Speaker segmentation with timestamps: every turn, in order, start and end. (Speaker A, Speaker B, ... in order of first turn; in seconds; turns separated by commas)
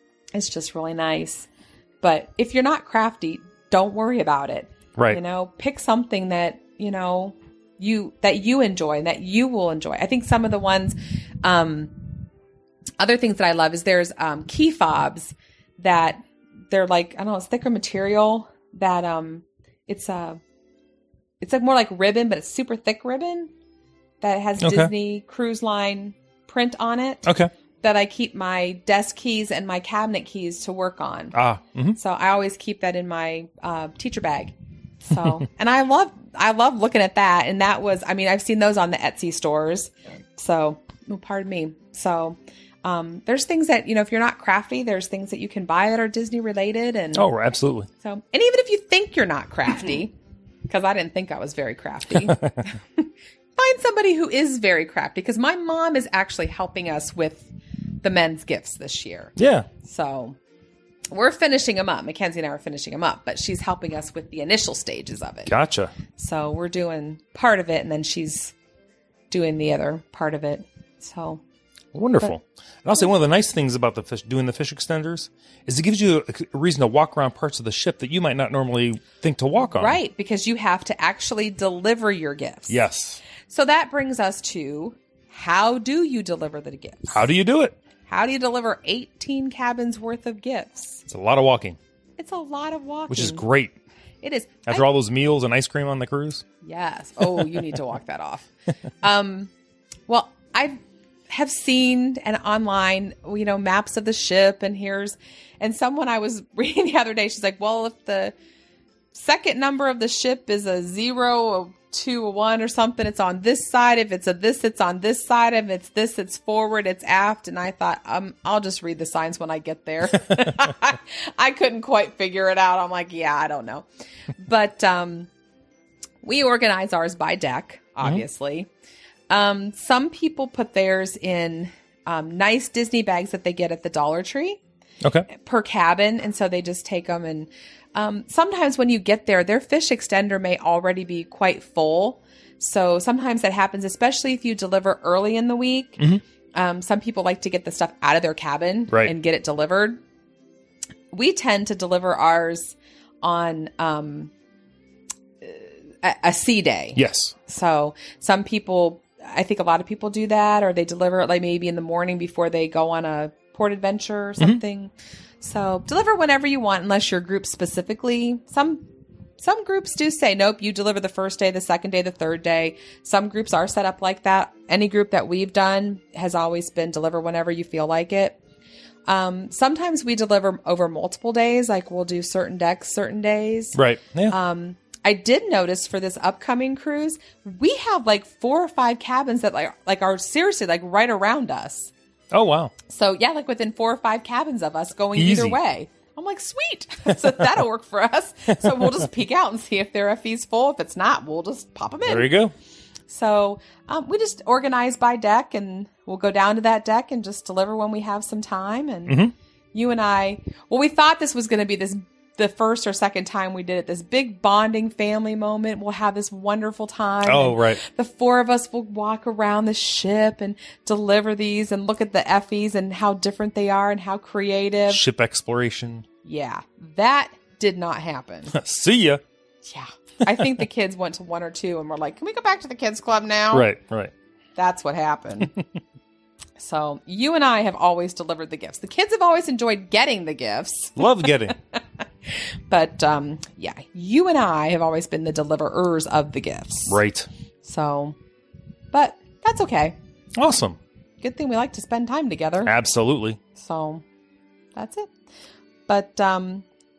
Speaker A: 0.3-1.5, Speaker A: 2.0-12.1, Speaker A: 13.0-20.4, Speaker A: 21.4-23.5, Speaker A: 24.2-27.3, Speaker B: 24.6-24.9, Speaker A: 27.8-31.4, Speaker B: 31.3-32.0, Speaker A: 31.9-47.3, Speaker B: 47.1-47.9, Speaker A: 48.0-50.1, Speaker A: 50.7-60.4, Speaker B: 52.2-52.5, Speaker B: 59.4-59.7, Speaker A: 61.1-65.5, Speaker B: 65.5-65.9, Speaker A: 66.2-68.5, Speaker A: 69.3-71.4, Speaker B: 71.9-80.0, Speaker A: 79.6-82.8, Speaker B: 82.7-83.2, Speaker A: 83.5-87.2, Speaker B: 87.1-87.7, Speaker A: 88.1-91.0, Speaker B: 91.1-91.8, Speaker A: 92.2-93.4, Speaker B: 93.1-93.7, Speaker A: 94.2-94.8, Speaker B: 94.7-96.4, Speaker A: 96.6-98.5, Speaker A: 99.0-99.5, Speaker A: 100.1-108.3, Speaker A: 109.1-123.8, Speaker A: 124.4-125.3, Speaker A: 126.2-128.7, Speaker A: 129.3-134.6, Speaker A: 135.3-146.0, Speaker A: 146.5-150.0, Speaker A: 151.1-154.3, Speaker A: 155.4-168.8, Speaker B: 156.9-157.3, Speaker A: 169.4-178.4, Speaker A: 179.1-191.9, Speaker B: 183.7-184.3, Speaker B: 192.3-192.7, Speaker A: 192.9-202.3, Speaker B: 195.2-195.6, Speaker B: 202.1-202.5, Speaker A: 203.1-209.2, Speaker B: 209.1-209.3, Speaker A: 209.7-225.0, Speaker B: 217.2-217.8, Speaker B: 224.9-226.0, Speaker A: 226.2-228.5, Speaker B: 228.5-229.2, Speaker A: 229.6-233.7, Speaker B: 233.5-234.1, Speaker A: 234.6-235.5, Speaker A: 236.6-241.8, Speaker B: 241.0-241.5, Speaker A: 242.7-247.0, Speaker B: 246.9-247.3, Speaker A: 247.6-248.2, Speaker A: 248.9-249.9, Speaker B: 250.4-250.8, Speaker A: 251.2-252.7, Speaker B: 252.6-253.4, Speaker A: 253.5-254.0, Speaker A: 254.8-255.1, Speaker A: 255.9-256.6